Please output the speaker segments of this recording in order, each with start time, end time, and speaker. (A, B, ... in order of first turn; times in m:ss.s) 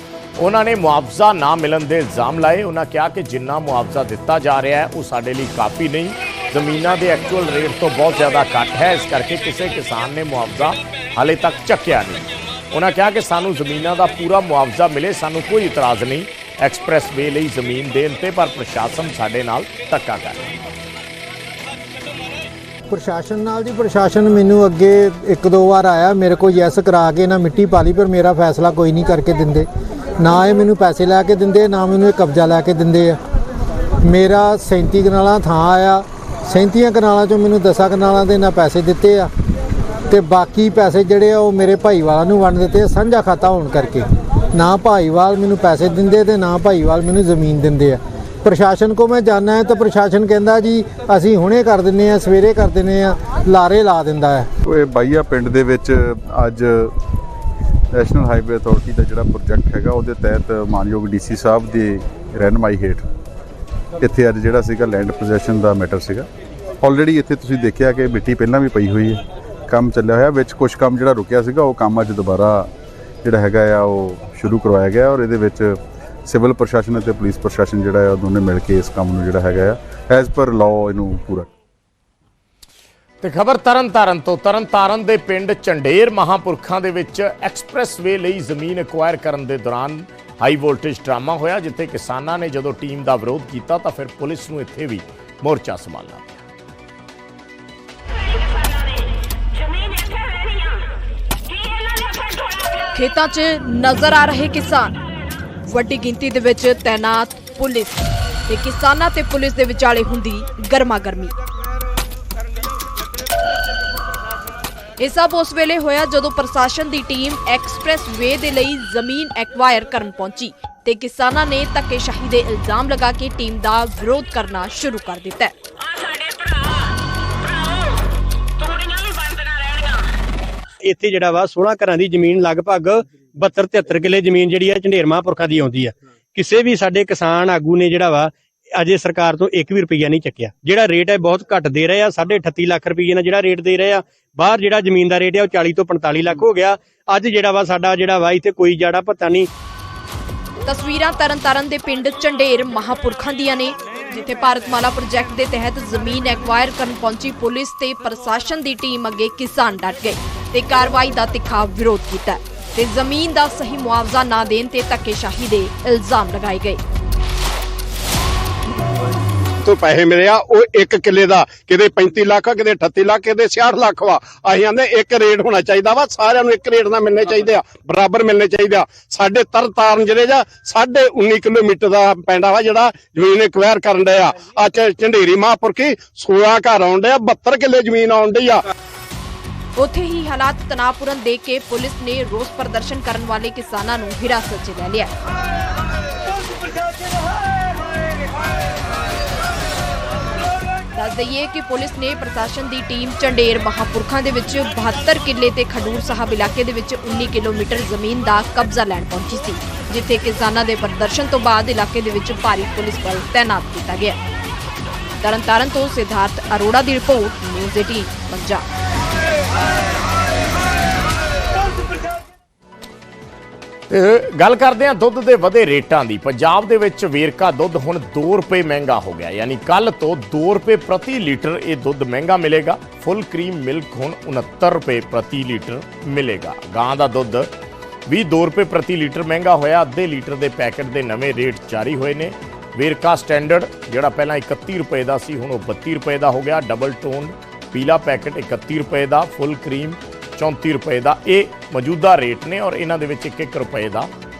0:00.4-0:20.4 A
0:22.9-0:29.7 B
0:30.2-0:33.2 B
0:34.0-0:39.3 B
0:40.1-0:54.5 B
0:54.6-0:56.9 C
0:57.9-1:03.0 C
1:04.0-1:06.3 C
1:06.8-1:12.7 C
1:13.2-1:21.5 C
1:23.2-1:36.4 A
1:42.9-1:45.0 D
1:45.7-1:51.3 D
1:55.0-2:05.5 D
2:10.8-2:29.5 E
2:30.7-2:46.8 D
2:49.6-3:08.6 F
3:09.8-3:15.1 D
3:20.9-3:34.2 D
3:35.2-3:38.6 D
3:43.9-3:57.5 A
3:58.1-4:14.1 A